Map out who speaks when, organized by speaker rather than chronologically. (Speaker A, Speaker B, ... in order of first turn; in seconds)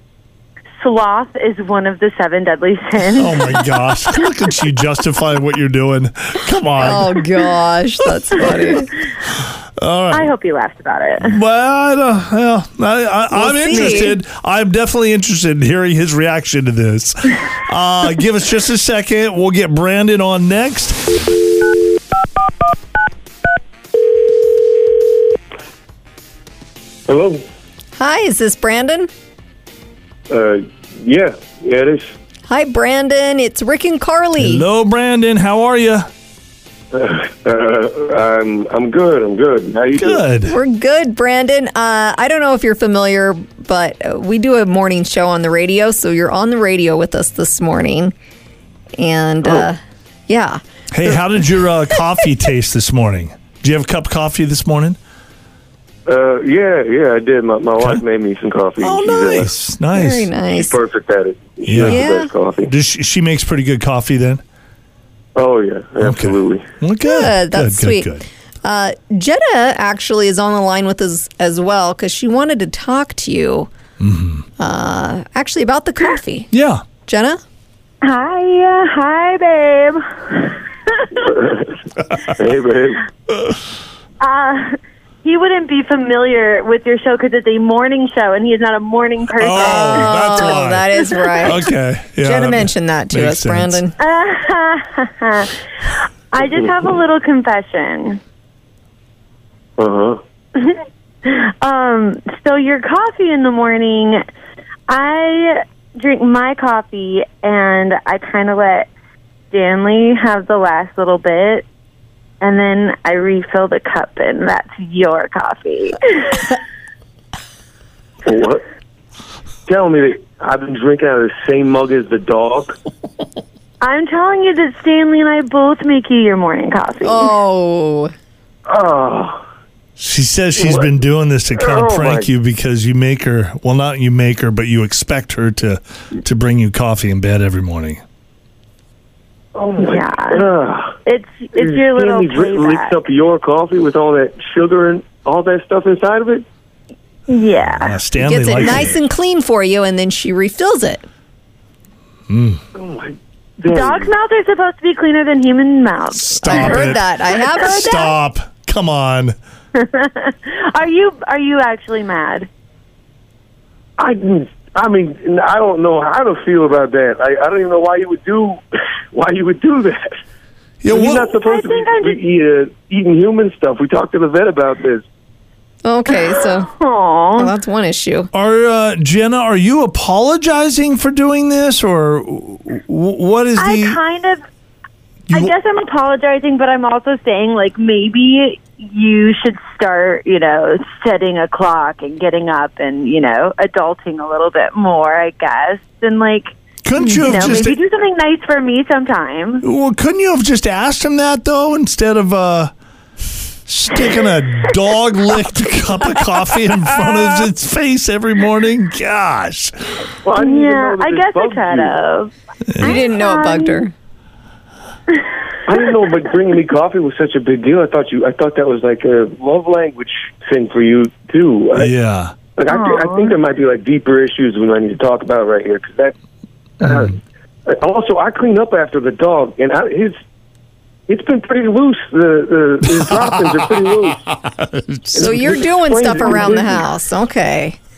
Speaker A: 0.8-3.6, 10.1-11.4, 13.8-14.1, 78.0-81.3, 84.2-91.4, 94.0-95.5, 96.3-98.2, 100.6-104.2, 104.9-108.9, 109.5-111.7, 112.4-116.5, 123.8-127.3, 139.8-140.5, 141.0-143.0, 147.3-148.0, 153.7-156.9, 159.7-162.5, 171.2-172.2, 176.1-177.5, 183.6-184.4, 185.3-199.6, 210.3-213.8, 215.2-216.1, 222.7-223.3
Speaker B: 3.2-7.3, 8.3-8.8, 9.8-10.3, 11.2-21.2, 34.4-36.1, 39.9-40.6, 50.9-55.0, 58.8-60.3, 61.6-62.1, 62.6-64.4, 66.0-68.2, 74.0-74.5, 76.5-76.8, 89.4-93.8, 130.0-138.0, 147.6-149.0, 152.3-152.6, 156.1-159.3, 170.8-171.3, 178.3-184.0, 185.3-185.5, 196.8-197.8, 199.6-202.7, 203.7-210.0, 212.7-213.1, 221.7-222.3, 232.9-235.6
Speaker C: 6.8-8.9, 13.3-14.2, 28.0-29.1, 32.5-34.6, 40.4-48.1, 49.0-51.2, 51.9-52.2, 59.9-60.8, 61.8-62.3, 67.0-68.1, 68.6-73.7, 74.6-76.5, 77.0-77.4, 89.5-91.7, 92.2-93.9, 127.0-128.1, 148.2-151.0, 156.4-158.1, 175.8-176.7, 177.3-178.3, 212.8-213.9, 235.2-237.8
Speaker D: 27.1-27.4, 30.3-32.1, 36.9-40.2, 56.0-59.5, 60.5-62.7, 65.3-66.7, 81.2-83.0, 99.8-100.2, 118.2-118.6, 119.7-122.7, 128.7-129.4, 130.6-130.9, 131.6-132.3, 139.5-140.9, 141.6-146.4, 152.7-154.1, 164.0-168.6, 169.1-170.2, 170.9-175.0, 210.2-212.0, 215.7-221.9, 222.5-226.1, 226.8-230.2, 231.1-234.2, 235.1-236.8